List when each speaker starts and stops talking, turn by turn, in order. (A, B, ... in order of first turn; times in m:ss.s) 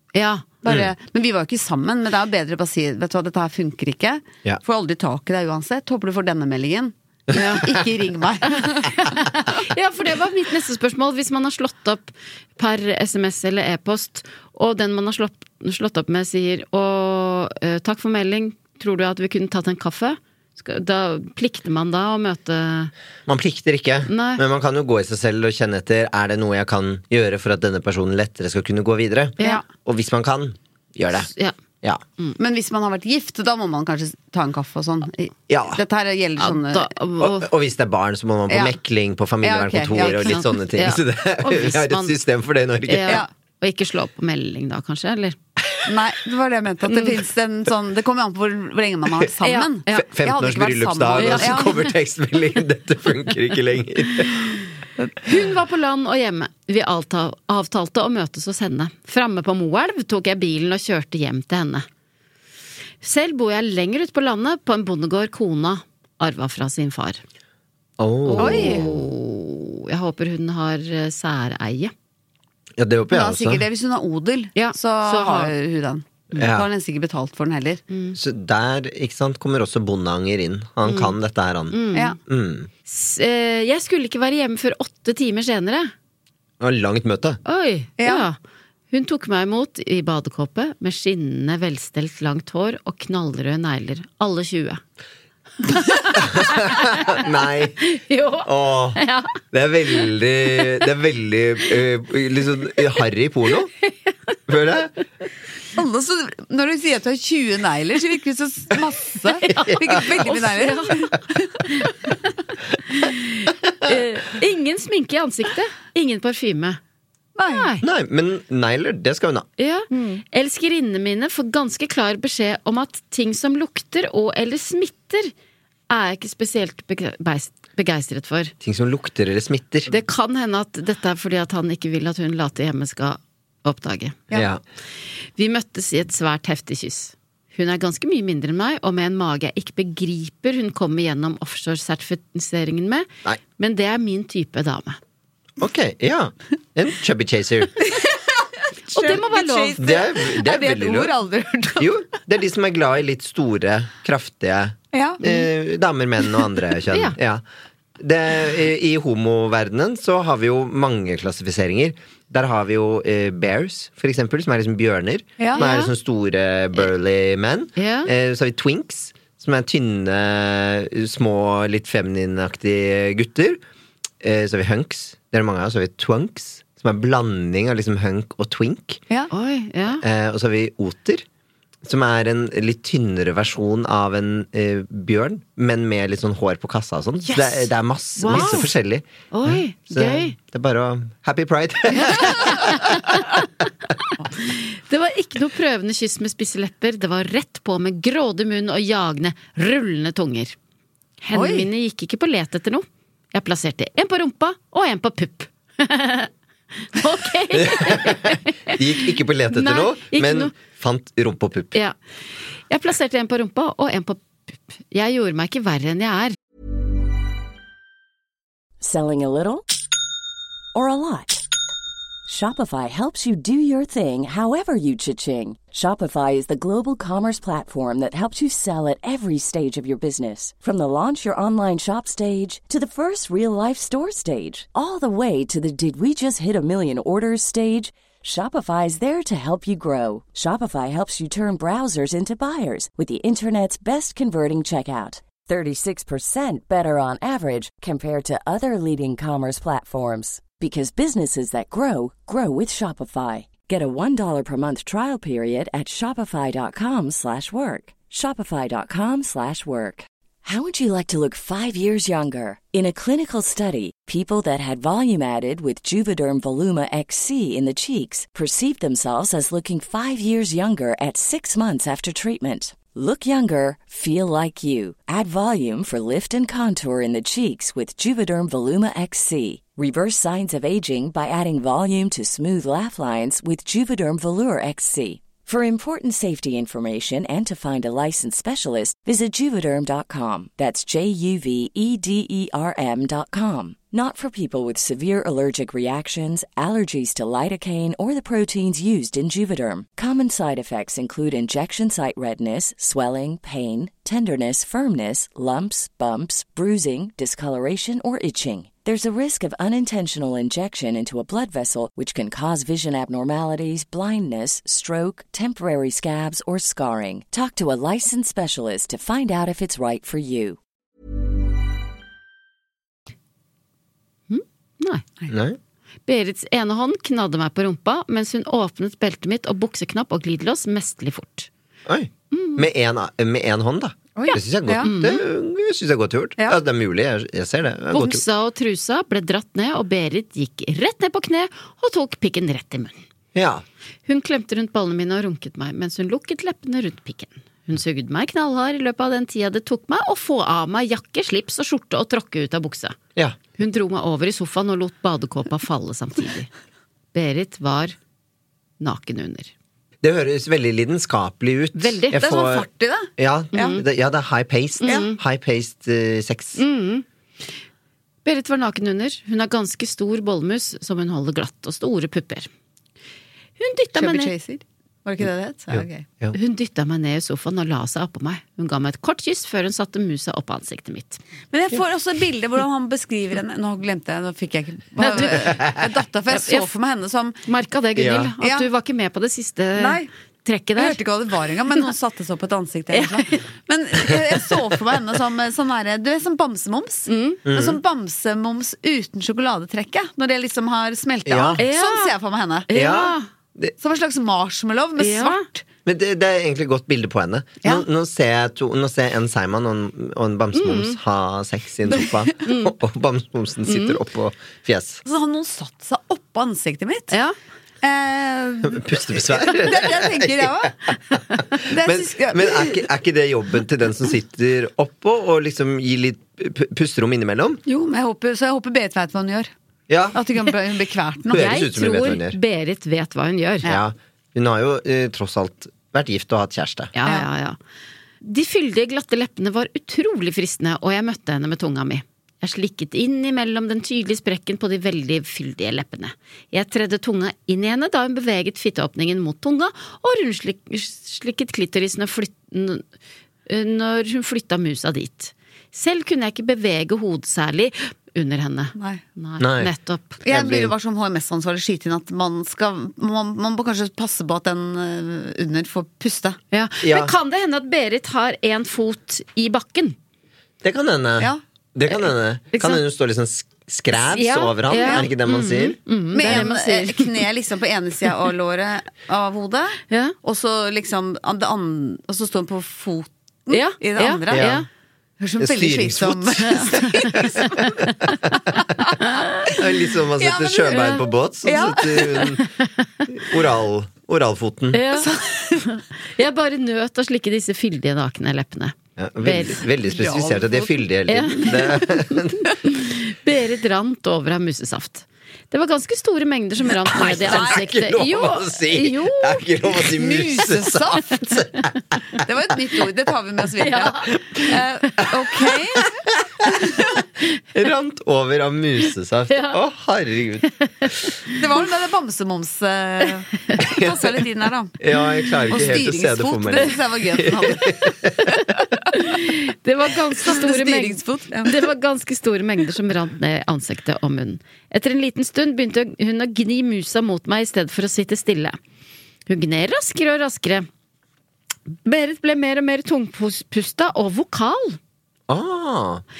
0:00.1-0:00.5 A
0:00.6-0:09.0 B
0:07.3-0:07.7 A
0:08.5-0:22.9 A
0:23.3-0:31.3 C
0:24.1-0:24.4 A
0:31.2-0:31.6 A
0:32.4-0:36.9 B
0:35.5-0:35.8 C
0:36.4-0:37.5 A
0:37.2-0:43.2 C
0:38.5-0:38.8 B
0:39.4-0:40.4 B
0:40.0-0:42.2 A
0:42.8-0:45.4 A
0:45.9-0:51.8 B
0:46.9-0:47.2 A
0:49.4-0:50.1 A
0:50.0-0:54.5 C
0:51.2-0:51.9 A
0:55.2-1:01.9 A
1:03.0-1:07.2 A
1:08.0-1:09.0 C
1:08.3-1:11.9 A
1:08.4-1:08.9 B
1:12.8-1:13.6 C
1:13.1-1:17.8 B
1:14.6-1:15.5 A
1:16.4-1:16.7 C
1:17.9-1:18.2 A
1:18.2-1:22.7 C
1:20.8-1:21.2 A
1:21.7-1:22.2 A
1:22.9-1:25.9 A
1:26.6-1:27.4 C
1:27.4-1:28.4 A
1:28.0-1:28.3 B
1:28.9-1:34.8 A
1:35.7-1:37.2 A
1:36.2-1:37.8 C
1:37.8-1:39.4 A
1:38.4-1:43.7 C
1:44.5-1:44.9 C
1:45.8-1:51.7 B
1:49.4-1:51.1 A
1:51.6-1:52.3 A
1:52.9-1:56.8 A
1:57.4-1:57.7 B
1:57.5-1:57.8 A
1:57.8-1:59.5 C
1:59.6-2:05.3 A
1:59.9-2:00.2 B
2:05.9-2:08.5 A
2:08.6-2:09.9 C
2:09.9-2:14.2 A
2:14.3-2:14.6 C
2:15.4-2:25.0 A
2:25.6-2:27.8 C
2:27.8-2:32.1 B
2:28.9-2:29.8 A
2:29.8-2:31.1 C
2:31.8-2:37.4 C
2:34.9-2:35.3 B
2:36.9-2:37.2 A
2:38.0-2:53.6 C
2:45.4-2:45.6 B
2:45.6-2:45.9 A
2:47.8-2:48.1 A
2:54.2-2:59.0 C
2:59.3-3:00.0 A
3:00.0-3:01.2 C
3:01.8-3:13.0 C
3:07.3-3:08.7 A
3:09.3-3:10.4 A
3:12.0-3:13.4 A
3:14.4-3:20.6 A
3:21.2-3:30.5 A
3:21.3-3:21.7 B
3:27.5-3:31.8 C
3:32.7-3:34.2 A
3:34.9-3:36.4 A
3:38.8-3:39.7 D
3:40.7-3:41.4 D
3:42.3-5:20.6 D
5:24.3-5:25.0 A
5:25.3-5:25.6 C
5:26.1-5:31.5 A
5:31.9-5:38.2 C
5:32.3-5:32.6 A
5:34.2-5:34.9 B
5:34.8-5:35.2 A
5:37.9-5:43.0 A
5:43.4-5:43.6 C
5:44.1-5:53.0 A
5:53.6-5:56.5 A
5:57.1-5:58.0 A
5:58.8-5:59.5 A
6:00.0-6:06.6 C
6:01.8-6:02.2 A
6:02.1-6:03.8 B
6:03.5-6:03.8 A
6:04.8-6:05.2 A
6:06.6-6:07.0 A
6:08.2-6:12.5 A
6:13.6-6:14.3 A
6:14.0-6:16.1 B
6:15.7-6:16.4 C
6:16.3-6:21.2 A
6:21.5-6:27.4 B
6:25.0-6:25.6 A
6:26.3-6:26.7 A
6:27.5-6:31.0 A
6:28.0-6:28.3 C
6:28.4-6:28.7 B
6:29.8-6:30.1 B
6:30.8-6:42.7 B
6:32.9-6:33.4 A
6:37.1-6:37.4 A
6:37.5-6:37.8 C
6:41.3-6:41.6 C
6:41.6-6:42.1 A
6:42.7-6:43.3 A
6:42.7-6:43.7 C
6:43.8-6:45.6 B
6:45.0-6:45.4 A
6:45.8-6:55.0 C
6:50.6-6:51.0 A
6:52.4-6:52.7 A
6:53.7-6:54.0 A
6:55.0-6:57.2 B
6:57.8-7:00.8 B
6:58.6-7:00.7 C
7:01.6-7:07.6 C
7:01.7-7:02.8 B
7:07.7-7:09.5 B
7:09.9-7:10.2 C
7:10.2-7:11.5 B
7:11.3-7:12.4 C
7:11.3-7:13.7 A
7:13.6-7:16.9 C
7:17.0-7:17.6 A
7:18.2-7:32.8 A
7:33.5-7:40.2 A
7:38.8-7:39.0 B
7:39.4-7:39.7 C
7:40.2-7:46.4 B
7:40.3-7:40.7 C
7:46.5-7:50.0 A
7:46.8-7:47.1 C
7:50.6-7:56.5 C
7:52.5-7:52.8 A
7:53.9-7:57.2 A
7:54.8-7:55.1 B
7:56.1-8:04.6 B
8:03.5-8:04.7 A
8:04.3-8:04.6 C
8:05.2-8:07.7 B
8:05.4-8:07.7 C
8:07.0-8:08.2 A
8:08.6-8:12.4 B
8:09.0-8:09.5 A
8:09.5-8:12.4 C
8:10.7-8:11.0 A
8:13.1-8:14.8 C
8:14.7-8:19.6 A
8:14.9-8:15.7 B
8:19.0-8:22.5 C
8:19.9-8:20.8 B
8:21.1-8:29.5 A
8:26.9-8:32.2 C
8:27.0-8:27.7 B
8:29.8-8:31.3 B
8:32.2-8:36.0 B
8:33.6-8:34.1 A
8:36.1-8:36.5 C
8:36.6-8:36.9 B
8:37.5-8:40.5 C
8:39.3-8:39.6 A
8:40.6-8:41.4 A
8:41.3-8:44.8 B
8:43.6-8:44.0 C
8:44.8-8:48.1 C
8:45.5-8:48.9 B
8:48.9-8:58.6 A
8:50.2-8:51.6 B
8:59.3-9:00.7 A
9:01.8-9:04.8 A
9:05.3-9:06.0 C